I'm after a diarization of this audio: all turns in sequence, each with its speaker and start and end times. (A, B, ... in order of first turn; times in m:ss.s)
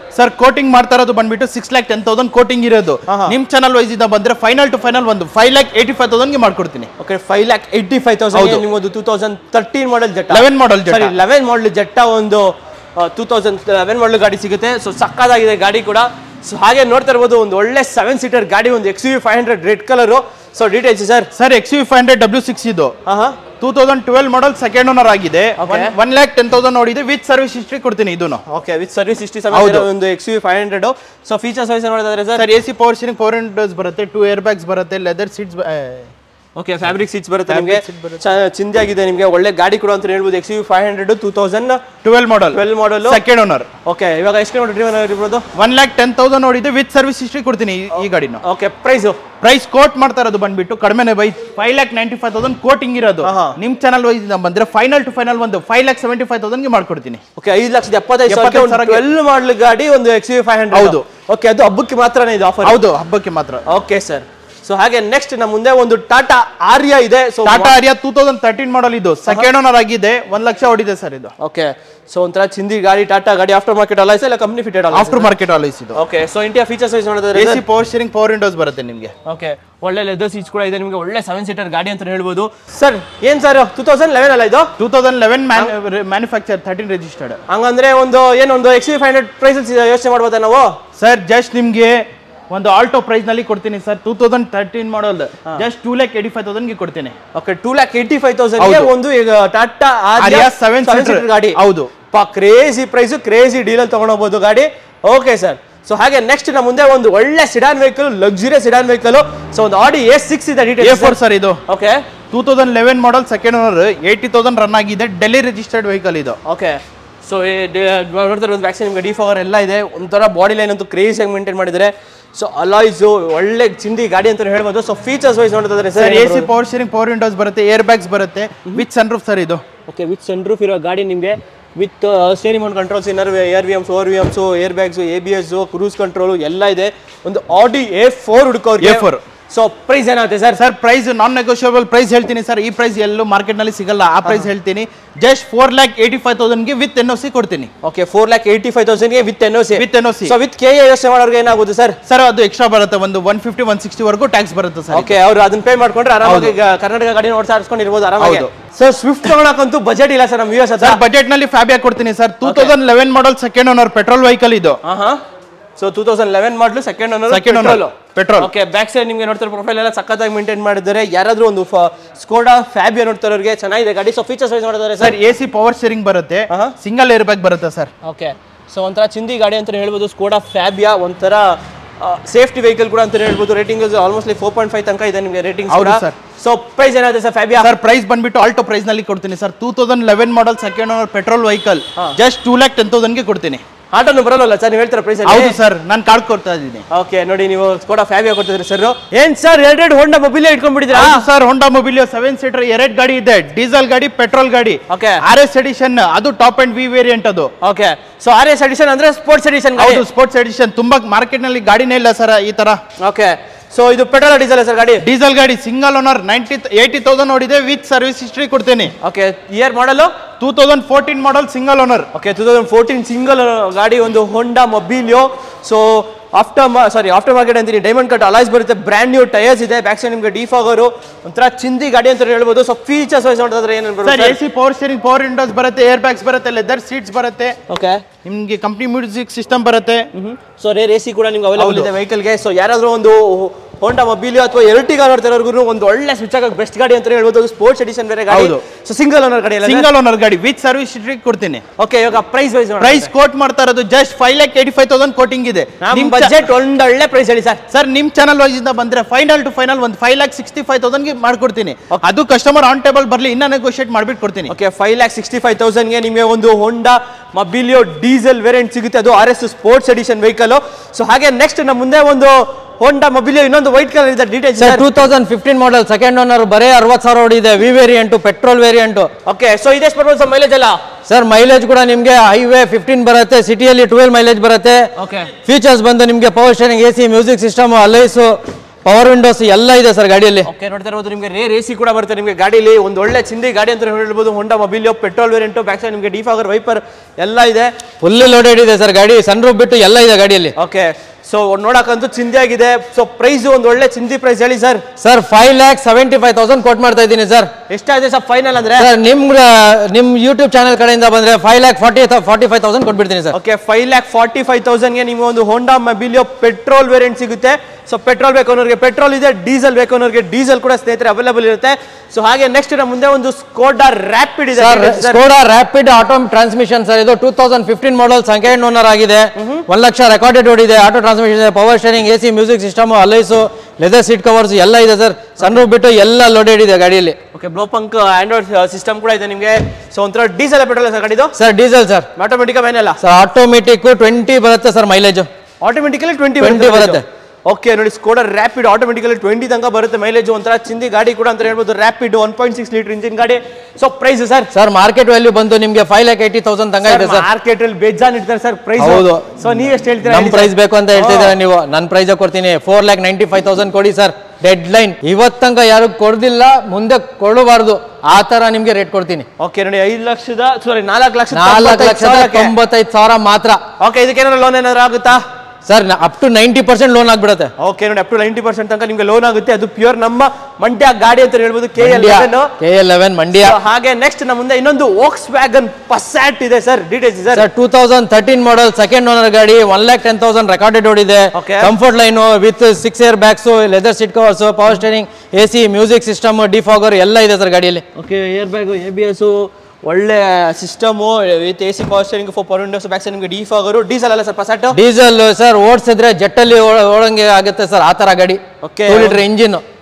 0:00.1-0:06.9 A
0:03.1-0:03.4 B
0:07.0-0:21.3 B
0:08.3-0:08.6 A
0:10.3-0:11.1 A
0:21.4-0:22.9 A
0:23.1-0:23.4 B
0:23.6-0:28.4 A
0:25.6-0:25.9 B
0:28.5-0:32.4 B
0:29.5-0:29.9 A
0:32.4-0:36.1 A
0:36.6-0:41.8 B
0:37.5-0:38.2 A
0:42.0-0:43.7 A
0:42.5-0:43.2 B
0:43.8-0:45.4 B
0:45.5-0:48.4 A
0:48.4-0:49.2 B
0:49.4-0:57.2 A
0:53.2-0:53.6 B
0:57.4-1:02.8 B
0:58.3-0:59.0 A
1:00.7-1:01.0 A
1:02.6-1:03.6 A
1:03.7-1:07.7 B
1:07.4-1:11.3 A
1:11.4-1:15.3 B
1:14.9-1:16.0 A
1:16.0-1:17.6 B
1:17.3-1:19.1 A
1:19.2-1:24.7 B
1:24.8-1:27.4 A
1:27.5-1:30.8 B
1:31.0-1:37.1 A
1:37.3-1:41.6 B
1:38.6-1:38.9 A
1:40.2-1:41.9 A
1:42.1-1:51.1 B
1:50.8-1:51.6 A
1:51.7-1:52.0 B
1:52.3-1:56.4 A
1:56.5-2:06.5 B
2:06.0-2:09.6 A
2:09.9-2:20.6 B
2:18.8-2:19.2 A
2:20.6-2:27.7 A
2:27.8-2:32.0 B
2:29.8-2:30.4 A
2:32.1-2:35.2 A
2:34.9-2:41.0 B
2:36.2-2:36.6 A
2:38.2-2:38.5 A
2:40.8-2:44.8 A
2:42.4-2:42.7 B
2:44.8-2:45.2 B
2:45.8-2:55.1 B
2:47.3-2:48.5 A
2:55.0-2:57.9 A
2:58.0-3:07.7 B
3:05.7-3:06.1 A
3:07.6-3:13.6 A
3:13.9-3:15.6 B
3:15.2-3:16.8 A
3:16.9-3:21.2 B
3:20.9-3:27.5 A
3:24.9-3:25.2 B
3:27.6-3:30.0 B
3:29.8-3:32.8 A
3:33.0-3:35.0 B
3:35.0-3:38.9 A
3:39.0-3:40.1 B
3:40.4-3:42.1 A
3:42.1-3:54.4 B
3:54.0-3:57.6 A
3:57.7-3:58.0 B
3:58.2-4:00.1 A
4:00.1-4:09.9 B
4:01.6-4:01.9 A
4:08.3-4:08.6 A
4:09.6-4:11.6 A
4:11.8-4:13.1 B
4:12.8-4:16.4 A
4:15.8-4:17.6 B
4:17.7-4:24.5 A
4:24.5-4:34.8 B
4:34.6-4:39.1 C
4:39.3-4:40.8 B
4:41.1-4:44.9 C
4:45.0-4:45.3 B
4:45.4-4:50.5 C
4:50.5-4:57.7 B
4:58.0-5:00.6 C
5:00.6-5:04.8 B
5:05.0-5:07.5 C
5:07.7-5:08.9 B
5:08.8-5:13.4 C
5:13.3-5:25.2 B
5:24.6-5:37.2 C
5:29.4-5:29.6 B
5:37.3-5:41.4 B
5:41.4-5:42.1 C
5:42.2-5:43.0 B
5:43.0-5:45.3 C
5:45.6-5:54.5 B
5:46.4-5:47.0 C
5:54.5-5:57.2 C
5:56.8-6:01.4 B
5:58.8-5:59.4 C
6:00.0-6:09.3 C
6:09.4-6:12.5 B
6:11.3-6:13.6 C
6:13.8-6:15.2 B
6:15.6-6:17.5 C
6:17.6-6:22.5 B
6:21.8-6:23.6 C
6:23.3-6:27.4 B
6:27.3-6:37.8 C
6:31.3-6:31.7 B
6:38.0-6:44.8 B
6:44.7-6:49.6 C
6:48.6-6:49.2 B